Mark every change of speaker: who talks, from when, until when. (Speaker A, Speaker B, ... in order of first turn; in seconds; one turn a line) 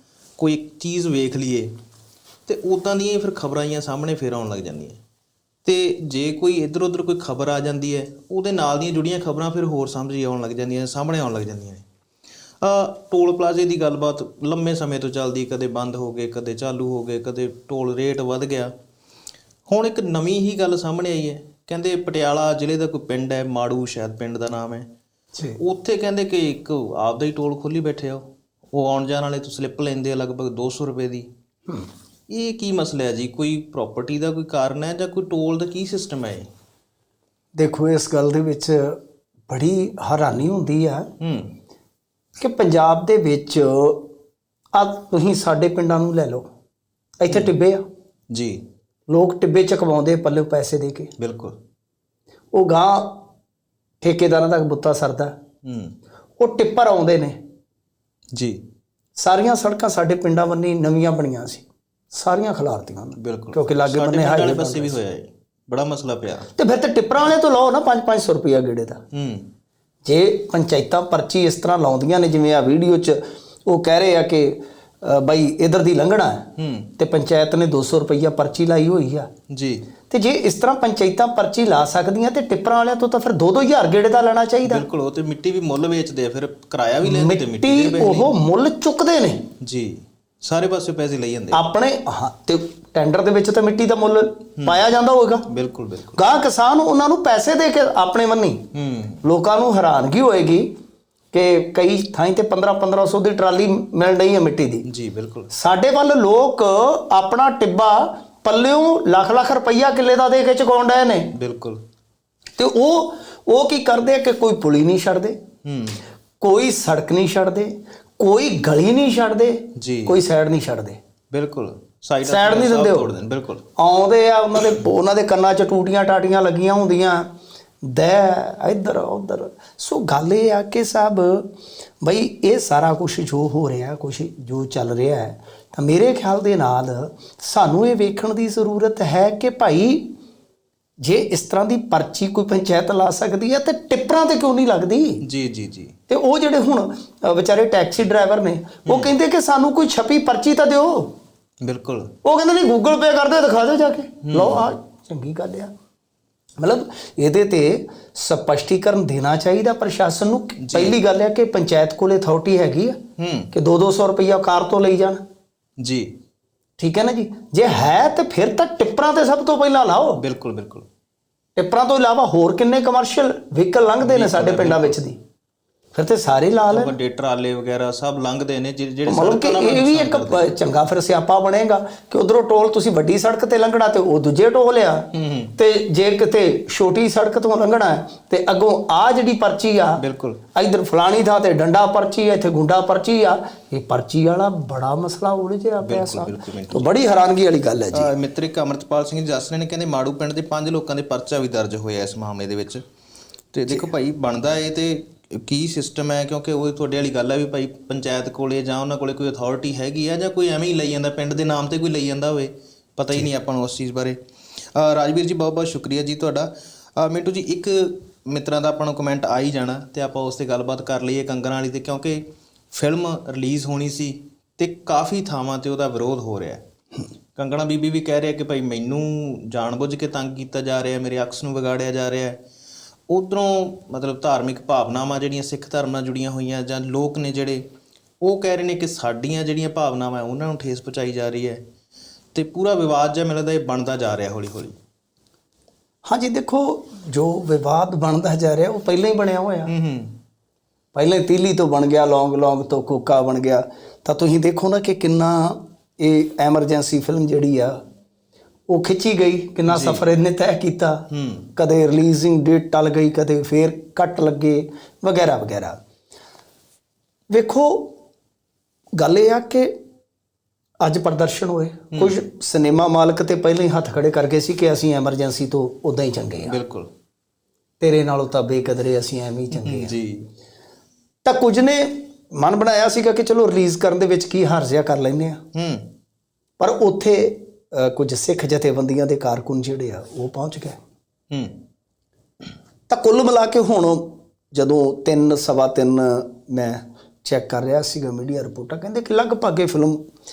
Speaker A: 0.4-1.7
Speaker A: 2.5-5.0
Speaker A: 5.6-11.8
Speaker A: 12.6-18.7
Speaker A: 19.7-24.9
Speaker A: 25.6-31.3
Speaker A: 32.3-36.5
Speaker B: 37.5-41.1
Speaker A: 41.2-41.5
Speaker B: 42.4-44.1
Speaker B: 44.7-46.5
Speaker B: 47.2-47.8
Speaker A: 48.3-48.6
Speaker B: 49.1-51.1
Speaker A: 51.2-51.6
Speaker B: 52.5-53.2
Speaker B: 54.0-55.3
Speaker A: 55.6-55.9
Speaker B: 56.4-57.4
Speaker A: 58.3-58.6
Speaker B: 59.2-65.0
Speaker A: 63.2-66.5
Speaker B: 66.5-69.0
Speaker A: 69.1-69.5
Speaker B: 70.0-79.3
Speaker A: 76.5-76.9
Speaker A: 79.5-79.9
Speaker B: 80.1-84.8
Speaker A: 84.6-88.3
Speaker B: 87.0-89.4
Speaker A: 89.6-91.6
Speaker B: 91.5-95.5
Speaker A: 95.5-96.2
Speaker B: 96.1-98.6
Speaker A: 98.7-99.2
Speaker B: 99.2-100.7
Speaker B: 101.3-104.8
Speaker A: 104.8-105.5
Speaker B: 105.5-111.3
Speaker A: 111.3-111.8
Speaker B: 112.6-115.4
Speaker A: 115.6-116.0
Speaker B: 116.4-121.0
Speaker A: 119.8-120.2
Speaker A: 121.3-123.6
Speaker B: 122.2-123.1
Speaker B: 123.8-127.3
Speaker B: 127.8-131.5
Speaker B: 132.0-140.1
Speaker B: 141.0-145.2
Speaker A: 145.2-145.9
Speaker B: 146.1-151.1
Speaker A: 148.8-149.1
Speaker A: 151.6-152.1
Speaker B: 152.2-155.7
Speaker A: 154.2-154.7
Speaker B: 156.6-163.0
Speaker A: 160.6-161.0
Speaker A: 163.2-163.5
Speaker B: 163.5-165.2
Speaker A: 165.8-166.1
Speaker B: 166.8-170.2
Speaker A: 170.1-170.8
Speaker B: 171.6-175.2
Speaker A: 174.0-175.0
Speaker B: 175.9-176.9
Speaker A: 176.7-180.5
Speaker B: 179.1-190.0
Speaker A: 185.1-185.5
Speaker A: 190.0-190.4
Speaker B: 190.5-198.1
Speaker A: 195.8-196.9
Speaker A: 197.9-202.8
Speaker A: 203.5-214.2
Speaker A: 214.7-226.6
Speaker A: 227.3-232.4
Speaker A: 233.1-237.6
Speaker A: 238.2-241.6
Speaker A: 242.3-244.8
Speaker B: 246.1-249.7
Speaker A: 249.7-250.1
Speaker B: 250.9-257.8
Speaker B: 258.7-265.8
Speaker A: 259.7-260.1
Speaker A: 261.1-261.5
Speaker B: 267.3-268.0
Speaker B: 269.0-269.7
Speaker B: 270.8-276.6
Speaker A: 271.9-272.2
Speaker A: 276.4-276.9
Speaker B: 277.8-280.0
Speaker A: 279.5-280.3
Speaker B: 281.2-285.4
Speaker A: 285.5-285.9
Speaker B: 286.6-290.8
Speaker A: 291.3-291.6
Speaker B: 292.9-300.0